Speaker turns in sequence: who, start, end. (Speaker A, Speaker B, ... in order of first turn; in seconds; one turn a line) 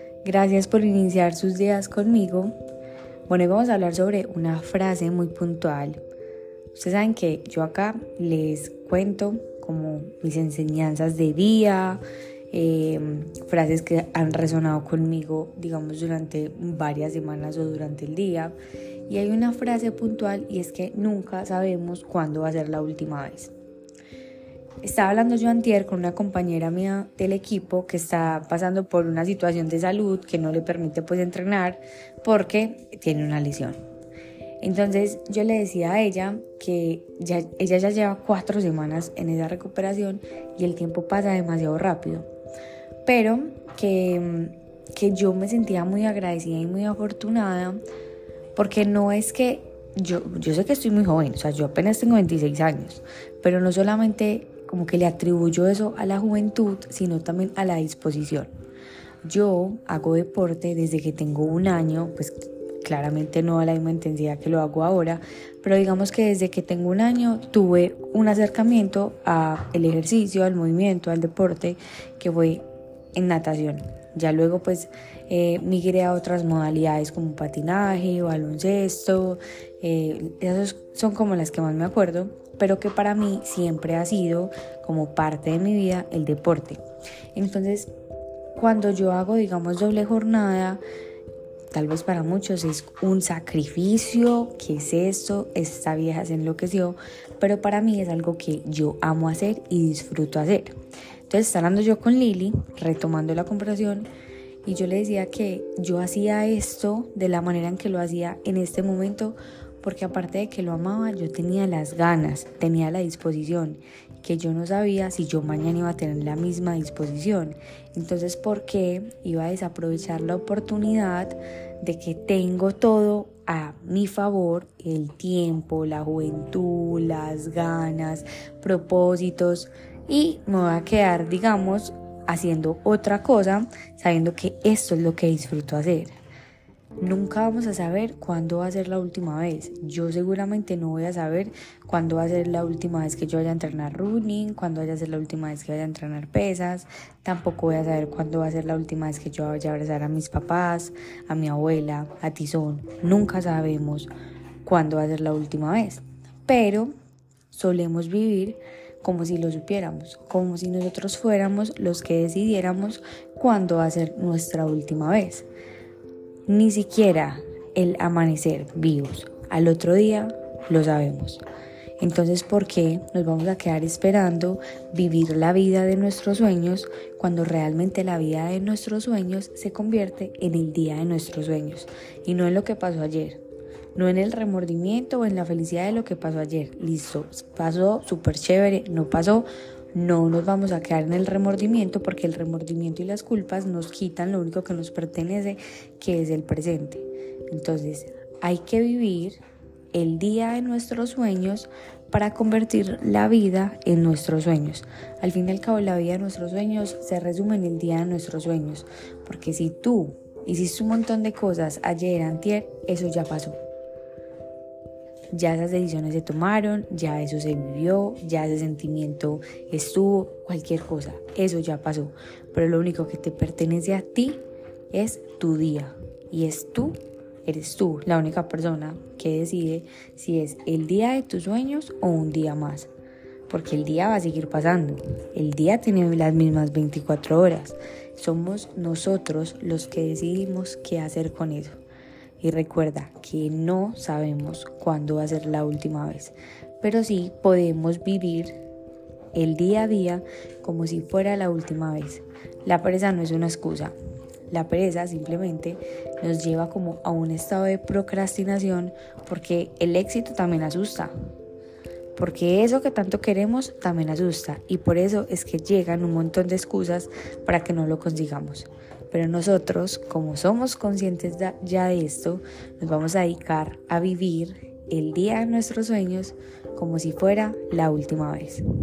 Speaker A: 0.2-2.5
Speaker A: 3.3-6.0
Speaker A: 6.7-18.5
Speaker A: 19.1-23.5
Speaker A: 24.8-33.8
Speaker A: 34.6-42.3
Speaker A: 43.0-47.8
Speaker A: 48.5-58.5
Speaker A: 59.2-86.8
Speaker A: 87.3-87.9
Speaker A: 88.5-90.8
Speaker A: 91.7-104.1
Speaker A: 104.6-136.2
Speaker A: 137.0-154.1
Speaker A: 154.6-156.9
Speaker A: 157.5-165.5
Speaker A: 166.5-171.4
Speaker A: 172.0-183.4
Speaker A: 183.9-199.4
Speaker A: 199.9-213.6
Speaker A: 215.3-232.9
Speaker A: 233.5-241.8
Speaker A: 242.4-248.6
Speaker A: 249.3-253.9
Speaker A: 254.5-261.1
Speaker A: 262.1-278.6